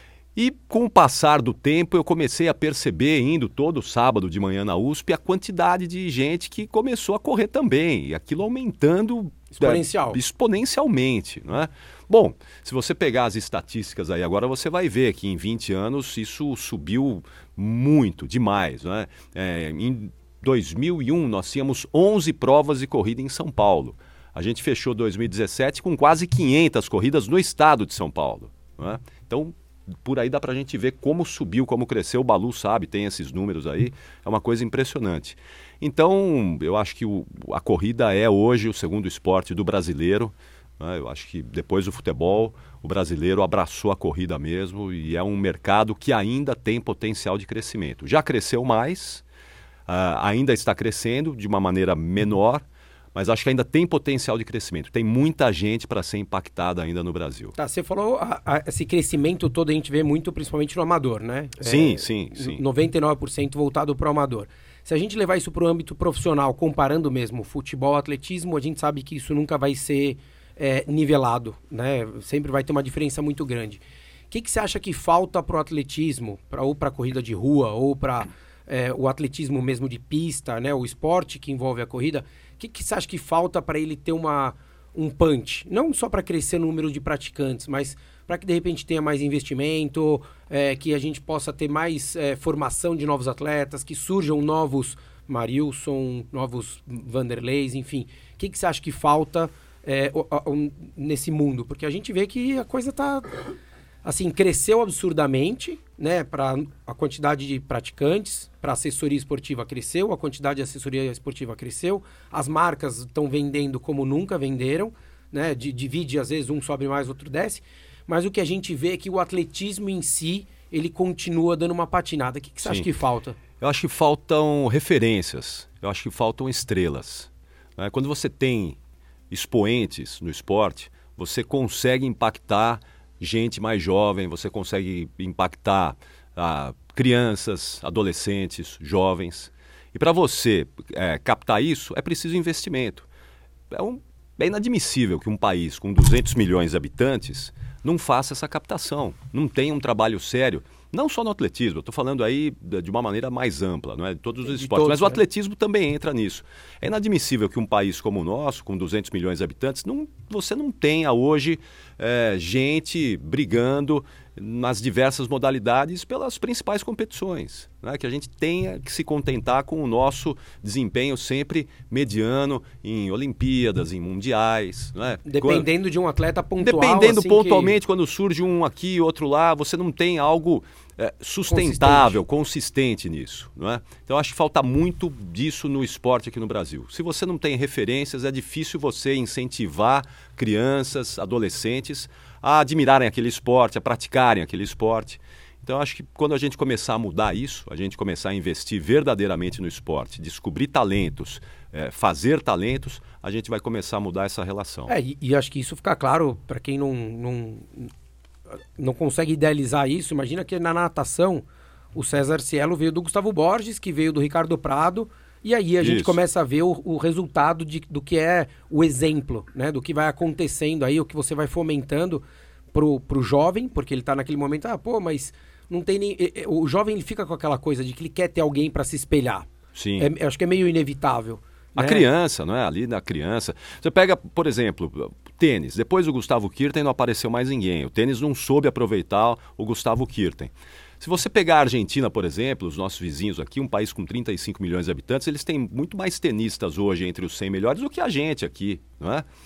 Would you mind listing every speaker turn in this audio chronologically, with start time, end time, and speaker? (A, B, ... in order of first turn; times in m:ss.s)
0:00.4-0:49.2 A
0:09.5-0:10.2 B
0:49.9-0:57.5 A
0:57.6-1:43.5 B
1:01.6-1:02.6 A
1:44.0-2:03.4 B
2:03.6-2:08.8 A
2:09.3-2:23.1 A
2:23.7-2:55.7 A
2:34.5-2:35.2 B
2:55.2-2:57.8 B
2:56.6-3:24.9 A
3:01.5-3:02.2 B
3:24.9-3:27.9 B
3:28.5-3:31.4 B
3:31.9-3:42.2 B
3:35.8-3:36.2 A
3:42.7-3:52.0 B
3:49.7-3:50.1 A
3:51.8-4:09.2 A